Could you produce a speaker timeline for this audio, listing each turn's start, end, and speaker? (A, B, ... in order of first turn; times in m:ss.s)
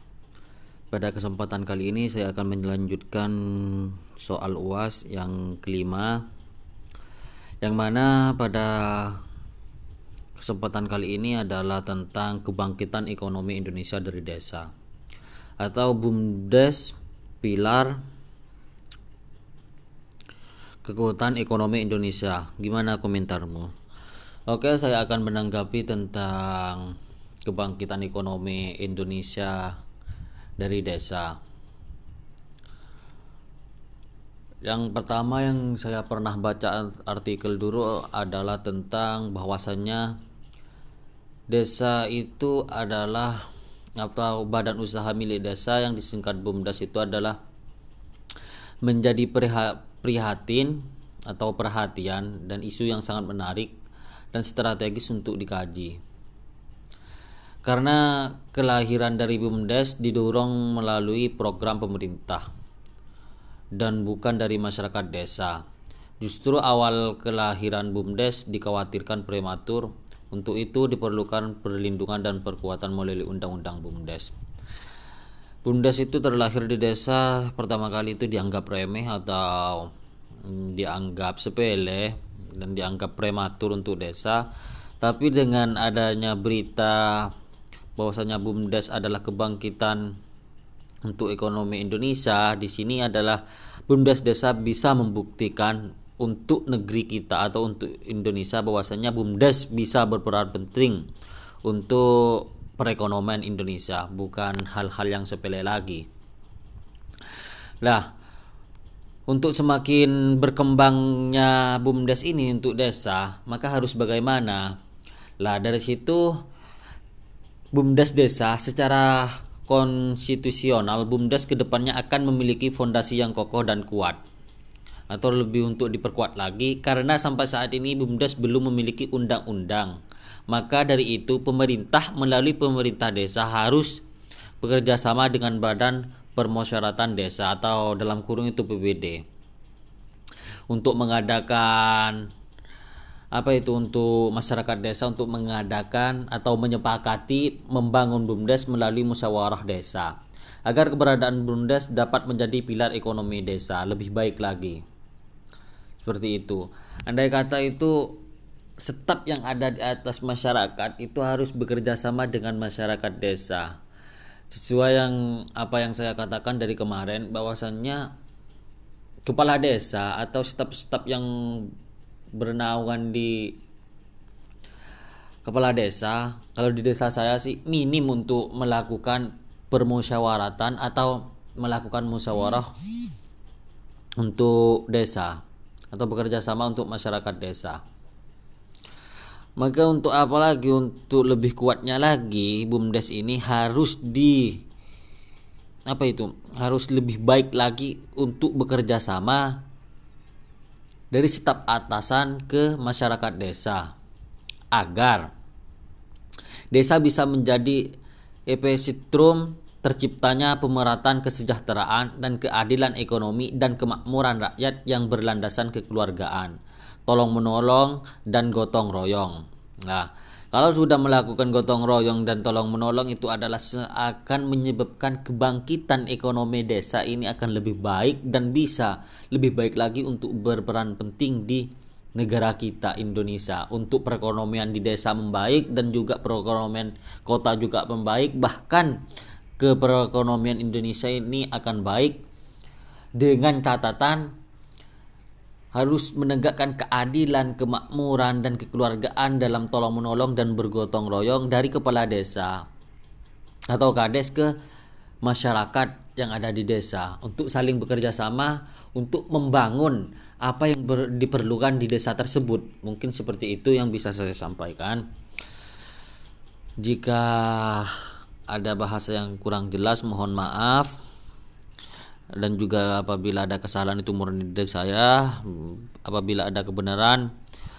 0:00.9-0:06.2 A
0:07.6-0:09.2 A
0:10.4-0:14.7 A
0:15.6-0:18.0 A
0:20.8-0:23.7 A
0:24.5-0:29.7 A
0:30.6-0:31.4 A
0:34.6-0:40.2 A
0:41.5-0:43.4 A
0:44.0-0:47.4 A
0:48.8-0:53.8 A
0:54.3-0:56.0 A
0:57.6-1:02.4 A
1:03.8-1:05.6 A
1:06.2-1:14.3 A
1:15.6-1:19.9 A
1:20.4-1:24.4 A
1:25.0-1:27.3 A
1:28.0-1:30.1 A
1:31.0-1:41.1 A
1:41.6-1:46.0 A
1:47.8-1:48.1 A
1:49.3-1:54.8 A
1:55.4-1:56.3 A
1:57.7-2:04.2 A
2:05.1-2:10.0 A
2:10.5-2:14.0 A
2:14.6-2:19.2 A
2:20.7-2:22.3 A
2:23.3-2:30.1 A
2:30.7-2:34.8 A
2:36.0-2:38.2 A
2:38.8-2:43.8 A
2:44.5-2:48.1 A
2:49.3-2:51.7 A
2:52.4-2:53.6 A
2:55.4-3:02.7 A
3:04.2-3:07.8 A
3:09.6-3:14.6 A
3:15.9-3:19.6 A
3:21.1-3:24.0 A
3:24.7-3:25.3 A
3:26.7-3:27.9 A
3:28.5-3:59.0 A
3:59.6-4:02.2 A
4:03.2-4:04.3 A
4:05.7-4:12.6 A
4:13.7-4:14.5 A
4:15.2-4:25.1 A
4:26.8-4:28.0 A
4:28.5-4:31.0 A
4:32.4-4:37.3 A